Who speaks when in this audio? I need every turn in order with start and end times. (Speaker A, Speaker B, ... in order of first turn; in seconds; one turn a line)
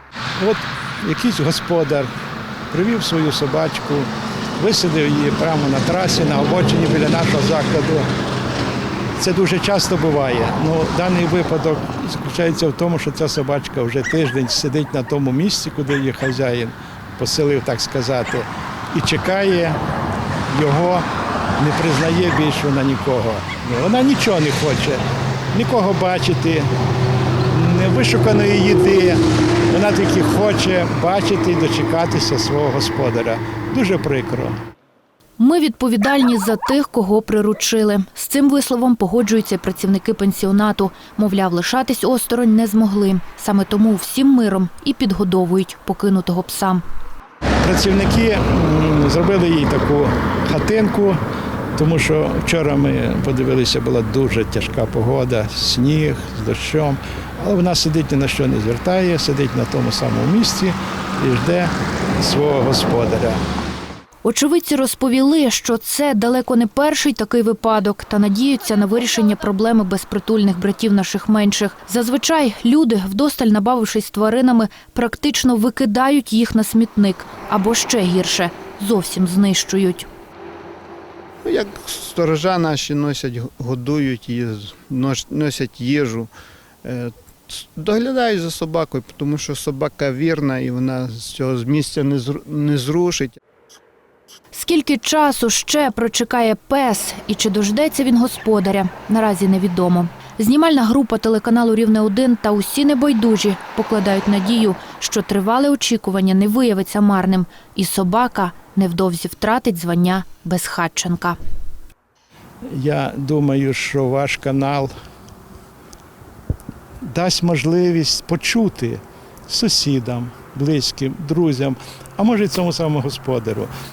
Speaker A: 0.4-2.1
Speaker A: 2.7-8.0
Speaker A: 9.2-19.8
Speaker A: 20.5-21.0
Speaker A: 21.6-25.0
Speaker A: 25.5-26.6
Speaker A: 27.5-29.2
Speaker A: 29.7-34.6
Speaker B: 35.4-46.8
Speaker A: 47.6-51.2
Speaker A: 51.8-63.4
Speaker B: 64.2-80.1
Speaker C: 81.4-86.3
Speaker C: 86.8-93.4
Speaker B: 94.5-111.4
Speaker A: 112.7-114.9
Speaker A: 117.0-123.7